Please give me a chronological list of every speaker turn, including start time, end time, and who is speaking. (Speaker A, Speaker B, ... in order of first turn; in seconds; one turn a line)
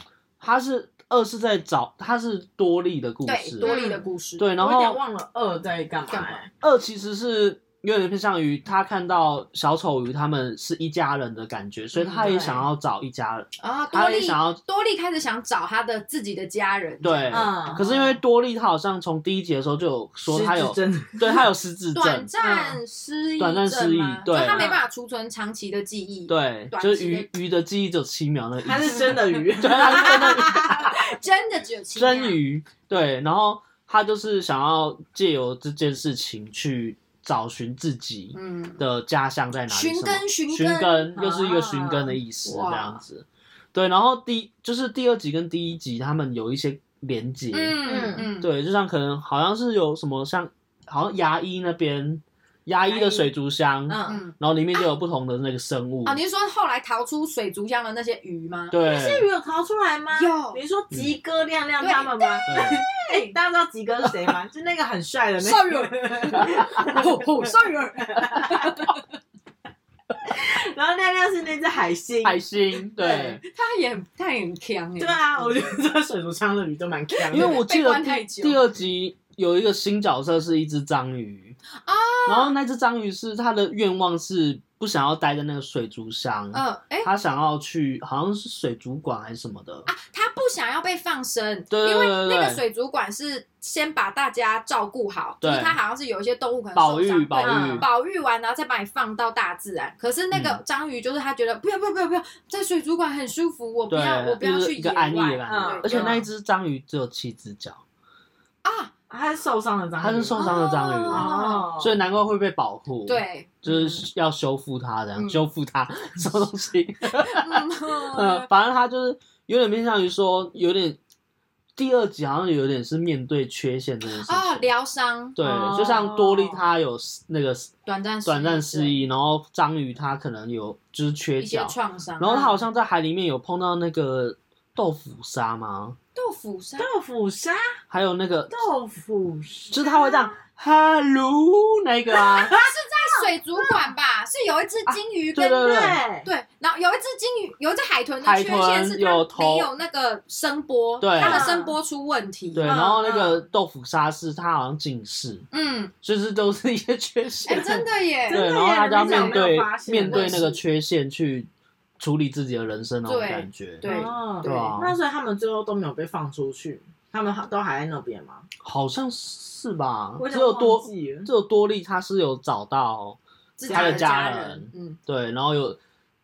Speaker A: 0.4-3.8
Speaker B: 3.2-4.5
Speaker C: 3.6-4.0
Speaker A: 4.4-5.0
Speaker C: 4.6-6.5
Speaker B: 6.1-6.4
Speaker A: 6.6-14.6
Speaker B: 11.9-12.3
Speaker C: 12.2-12.7
Speaker B: 13.6-18.2
Speaker A: 17.0-22.3
Speaker C: 17.3-17.9
Speaker C: 20.3-21.4
Speaker B: 21.9-27.3
Speaker C: 22.4-22.8
Speaker A: 23.4-24.7
Speaker C: 24.3-24.8
Speaker A: 26.3-31.0
Speaker C: 28.6-30.6
Speaker B: 29.7-32.4
Speaker A: 32.0-56.2
Speaker B: 38.3-38.8
Speaker B: 39.7-41.4
Speaker C: 41.2-42.1
Speaker B: 42.5-43.0
Speaker B: 47.5-48.5
Speaker C: 47.9-48.3
Speaker C: 52.9-53.3
Speaker C: 53.9-54.2
Speaker B: 54.0-54.4
Speaker B: 56.0-58.8
Speaker A: 58.7-59.3
Speaker C: 58.9-67.5
Speaker B: 60.1-60.6
Speaker B: 61.8-63.4
Speaker A: 62.5-62.8
Speaker B: 65.4-69.0
Speaker C: 68.0-68.8
Speaker C: 70.2-73.4
Speaker A: 72.2-73.4
Speaker B: 73.4-75.6
Speaker C: 75.0-77.6
Speaker B: 77.2-78.6
Speaker A: 77.3-81.6
Speaker B: 81.8-82.5
Speaker A: 82.3-89.9
Speaker B: 86.5-87.1
Speaker B: 89.9-106.1
Speaker A: 91.7-92.6
Speaker A: 95.4-95.8
Speaker A: 96.8-97.9
Speaker C: 97.4-97.9
Speaker A: 100.3-100.6
Speaker A: 103.9-107.8
Speaker C: 105.5-106.2
Speaker B: 108.6-108.9
Speaker C: 109.1-112.0
Speaker A: 110.0-121.0
Speaker B: 110.3-111.7
Speaker B: 113.1-114.0
Speaker B: 115.2-115.4
Speaker B: 117.1-118.5
Speaker A: 121.8-124.7
Speaker B: 124.2-125.4
Speaker A: 125.4-127.7
Speaker C: 125.4-126.7
Speaker B: 127.9-129.0
Speaker A: 128.2-136.0
Speaker B: 131.4-132.6
Speaker B: 136.2-136.9
Speaker C: 136.8-137.7
Speaker A: 137.9-138.6
Speaker C: 138.5-140.3
Speaker A: 139.7-142.6
Speaker C: 142.2-143.9
Speaker B: 142.4-152.7
Speaker A: 144.9-146.0
Speaker C: 145.6-146.3
Speaker A: 148.2-149.7
Speaker A: 151.0-151.6
Speaker C: 151.2-151.7
Speaker A: 152.5-155.5
Speaker C: 152.7-153.4
Speaker B: 155.5-155.9
Speaker A: 156.0-165.0
Speaker B: 157.5-160.6
Speaker C: 158.3-160.6
Speaker B: 163.1-164.8
Speaker C: 163.8-168.4
Speaker A: 168.6-175.8
Speaker C: 170.2-171.3
Speaker B: 173.6-175.0
Speaker C: 173.7-174.1